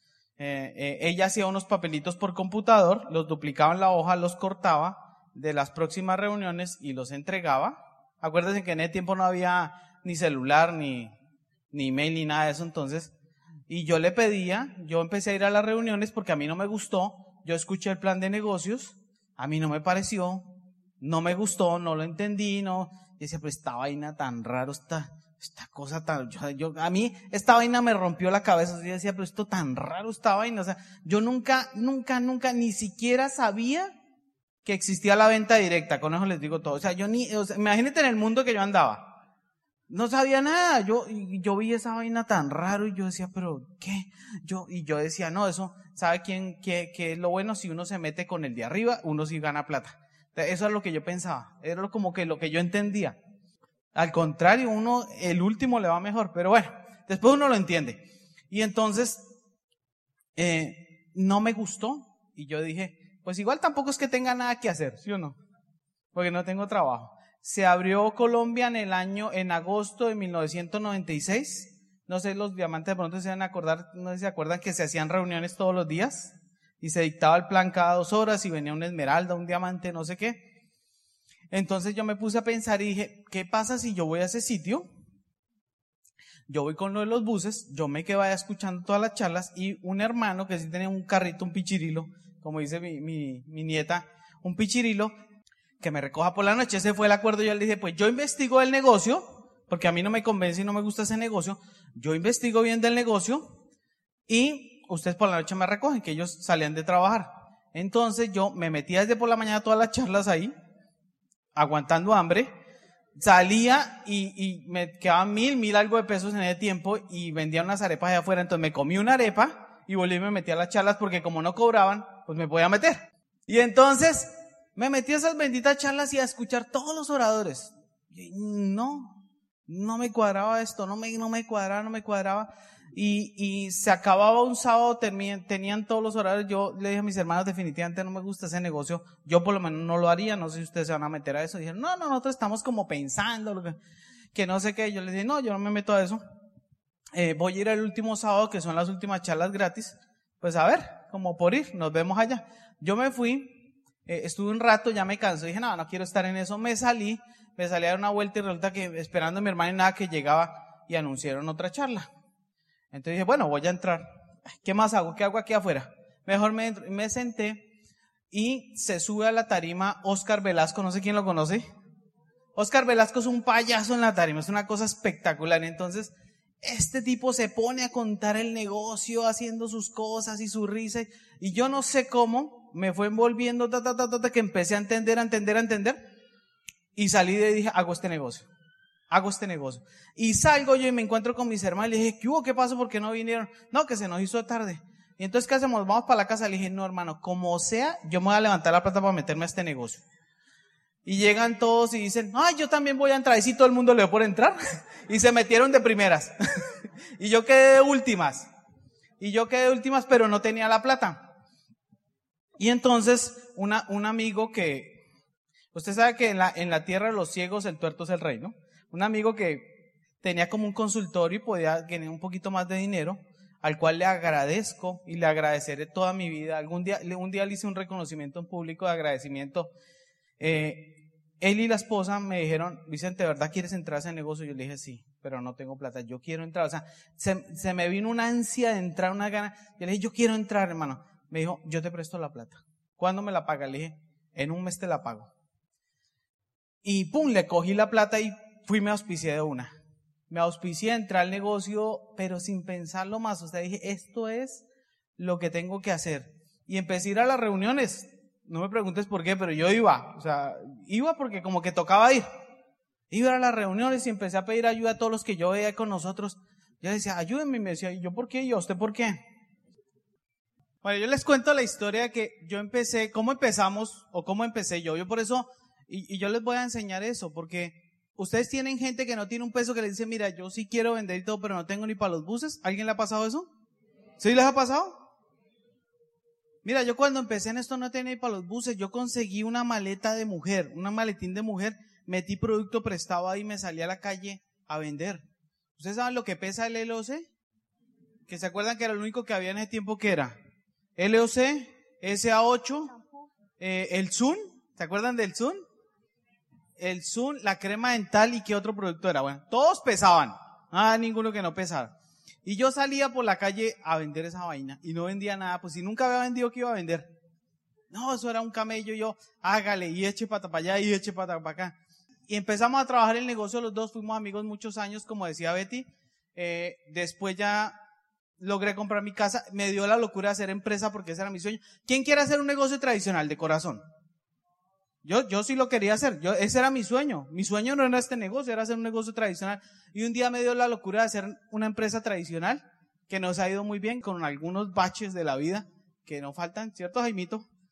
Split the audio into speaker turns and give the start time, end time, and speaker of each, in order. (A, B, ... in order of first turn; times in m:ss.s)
0:00.4-0:11.1 A
0:11.7-0:13.1 A
0:13.7-0:20.5 A
0:21.0-0:33.9 A
0:34.6-0:39.1 A
0:39.9-0:53.2 A
0:53.9-0:59.2 A
1:00.4-1:05.4 A
1:06.1-1:20.4 A
1:21.5-1:24.9 A
1:26.5-1:35.1 A
1:35.8-1:43.4 A
1:44.3-1:50.5 A
1:51.5-1:52.5 A
1:53.2-2:23.8 A
2:24.3-2:26.2 A
2:27.1-2:33.5 A
2:34.1-2:42.1 A
2:42.9-2:47.7 A
2:48.3-2:51.6 A
2:52.6-3:06.0 A
3:06.9-3:08.5 A
3:09.1-3:20.0 A
3:21.0-3:28.5 A
3:29.2-3:31.2 A
3:32.6-3:35.0 A
3:35.7-3:49.7 A
3:50.4-4:05.3 A
4:06.8-4:09.7 A
4:10.3-4:14.6 A
4:15.2-4:22.2 A
4:23.1-4:29.2 A
4:30.8-4:43.5 A
4:44.2-4:45.0 A
4:46.6-4:55.2 A
4:55.8-4:57.3 A
4:58.3-5:00.3 A
5:01.0-5:02.9 A
5:03.6-5:05.6 A
5:06.8-5:11.9 A
5:12.4-5:17.1 A
5:17.9-5:21.8 A
5:22.3-5:27.8 A
5:28.4-5:33.8 A
5:35.0-5:47.5 A